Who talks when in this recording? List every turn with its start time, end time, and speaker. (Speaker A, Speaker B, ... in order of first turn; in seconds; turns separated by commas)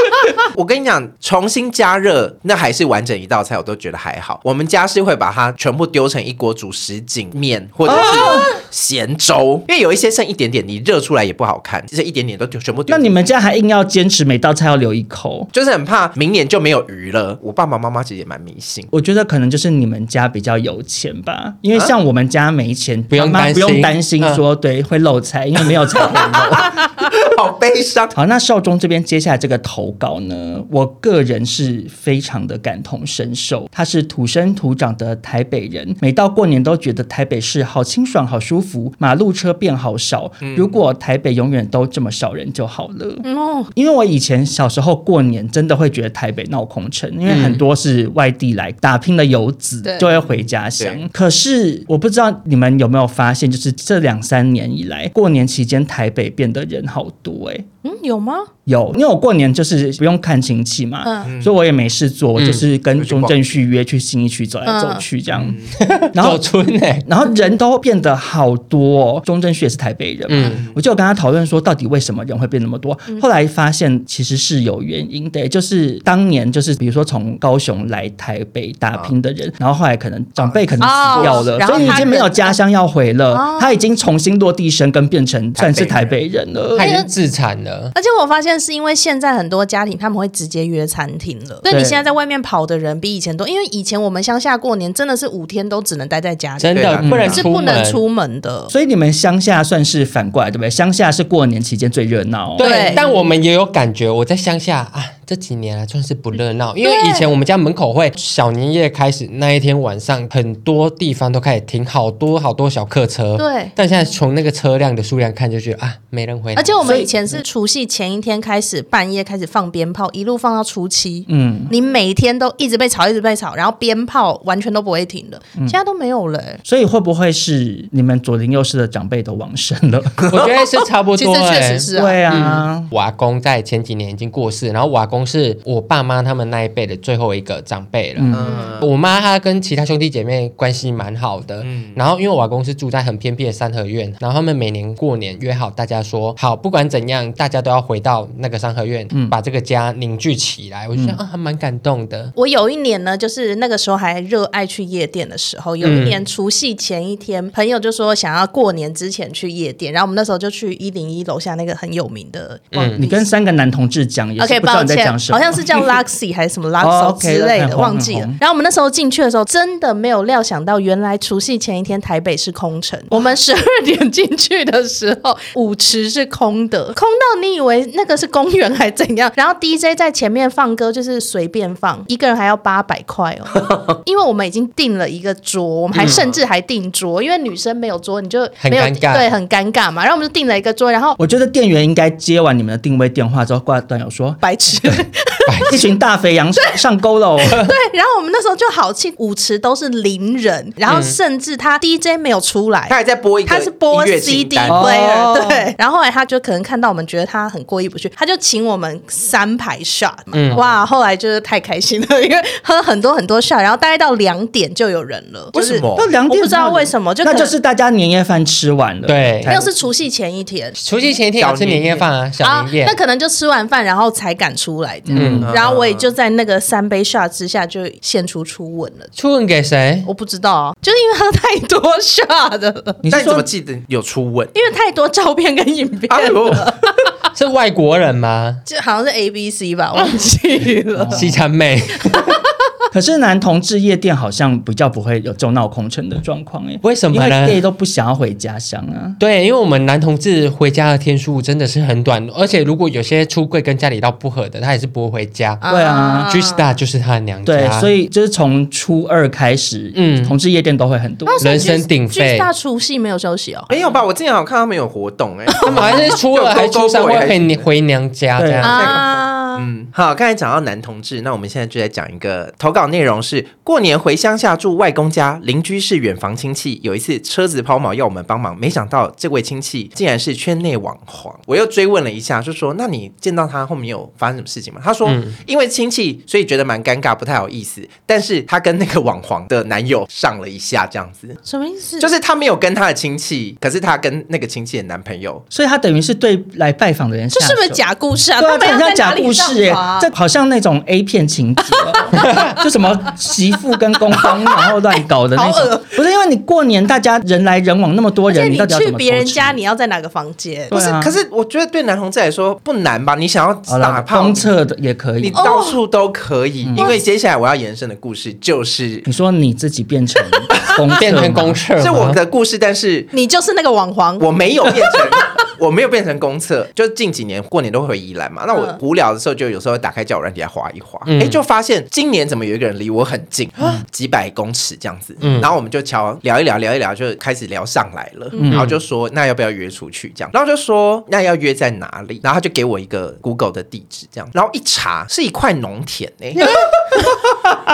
Speaker A: 0.4-13.2, Speaker B: 7.8-8.5, Speaker B: 12.9-15.5, Speaker A: 15.5-18.9, Speaker B: 18.9-26.8, Speaker C: 23.1-24.4, Speaker A: 25.9-28.1, Speaker B: 28.1-43.2, Speaker A: 40.4-40.8, Speaker D: 43.2-43.7, Speaker B: 43.7-57.7, Speaker C: 47.2-47.6, Speaker D: 49.8-50.2, Speaker D: 57.8-58.5, Speaker B: 58.6-65.6, Speaker D: 61.0-61.3, Speaker A: 61.3-61.5, Speaker C: 62.4-62.6, Speaker A: 63.0-63.4, Speaker D: 64.7-65.0, Speaker A: 65.3-65.7, Speaker C: 65.8-67.0, Speaker B: 66.1-66.5, Speaker B: 67.0-86.9, Speaker C: 70.3-70.6, Speaker A: 70.4-70.8, Speaker D: 80.8-82.6, Speaker A: 81.1-82.1, Speaker D: 83.3-83.8, Speaker A: 85.5-86.2, Speaker C: 86.7-87.9, Speaker D: 86.8-87.1, Speaker D: 87.9-98.7, Speaker B: 91.7-92.0, Speaker C: 96.6-98.0, Speaker A: 96.8-97.4, Speaker B: 97.0-97.5, Speaker B: 98.7-103.0, Speaker C: 102.6-117.0, Speaker D: 102.6-103.0, Speaker D: 106.8-107.3, Speaker D: 113.4-113.7, Speaker D: 116.5-126.6, Speaker B: 116.8-117.3, Speaker B: 121.3-121.7, Speaker B: 126.6-130.3, Speaker C: 130.2-152.3, Speaker D: 131.1-132.3, Speaker B: 131.9-132.9, Speaker B: 138.2-138.5, Speaker A: 138.3-138.8, Speaker D: 138.4-138.8, Speaker A: 141.6-142.0, Speaker D: 152.3-163.3, Speaker C: 155.8-156.2, Speaker C: 162.7-163.0, Speaker B: 163.0-165.9, Speaker D: 164.4-191.2, Speaker B: 166.8-168.4, Speaker C: 185.9-186.2, Speaker A: 185.9-186.4, Speaker C: 188.6-189.3, Speaker B: 191.2-195.0, Speaker D: 194.4-195.5, Speaker C: 195.5-195.8, Speaker B: 195.7-197.7, Speaker D: 197.5-217.5, Speaker C: 200.9-201.2, Speaker A: 202.9-204.9, Speaker B: 204.7-205.7, Speaker C: 210.3-210.6, Speaker A: 215.5-216.1, Speaker B: 215.9-219.7, Speaker C: 219.0-219.6, Speaker D: 219.4-220.8, Speaker C: 220.8-222.9, Speaker A: 221.4-222.1, Speaker D: 222.4-229.1, Speaker B: 225.1-225.5, Speaker C: 225.1-225.5, Speaker A: 225.4-226.1, Speaker C: 229.2-230.1, Speaker D: 230.0-233.0, Speaker B: 233.0-233.5, Speaker A: 233.1-234.5, Speaker D: 234.5-237.1, Speaker A: 236.1-236.7, Speaker C: 237.3-238.6, Speaker D: 238.7-241.3, Speaker B: 240.9-241.4, Speaker C: 241.1-242.3, Speaker D: 242.1-242.3, Speaker B: 242.9-249.2, Speaker C: 246.8-247.6, Speaker C: 249.2-255.6, Speaker D: 255.6-256.6, Speaker B: 255.7-256.3, Speaker C: 256.3-257.9, Speaker B: 257.4-261.4, Speaker C: 259.9-260.3, Speaker D: 261.2-263.7, Speaker C: 261.4-262.5, Speaker A: 263.7-267.6, Speaker D: 265.5-266.0, Speaker C: 265.6-269.0, Speaker B: 268.4-268.8, Speaker D: 268.6-269.6, Speaker A: 268.7-291.4, Speaker C: 285.1-285.3, Speaker D: 291.4-292.1, Speaker A: 292.0-295.4, Speaker B: 295.5-297.8, Speaker D: 297.3-300.1, Speaker B: 298.4-309.6, Speaker D: 302.1-302.4, Speaker C: 302.2-302.5, Speaker D: 304.2-304.7, Speaker D: 305.3-305.9, Speaker D: 308.3-310.7, Speaker B: 310.7-311.1, Speaker A: 310.7-314.5, Speaker B: 313.7-315.4, Speaker A: 315.2-319.1, Speaker D: 315.3-315.8, Speaker B: 316.6-316.9, Speaker B: 319.1-321.6, Speaker C: 321.0-322.2, Speaker A: 321.8-323.1, Speaker D: 323.1-324.3, Speaker A: 324.2-346.5, Speaker D: 328.5-328.8, Speaker C: 331.1-331.4, Speaker C: 335.2-335.5, Speaker D: 338.3-338.6, Speaker B: 338.4-338.7, Speaker C: 338.5-338.8, Speaker C: 346.4-347.1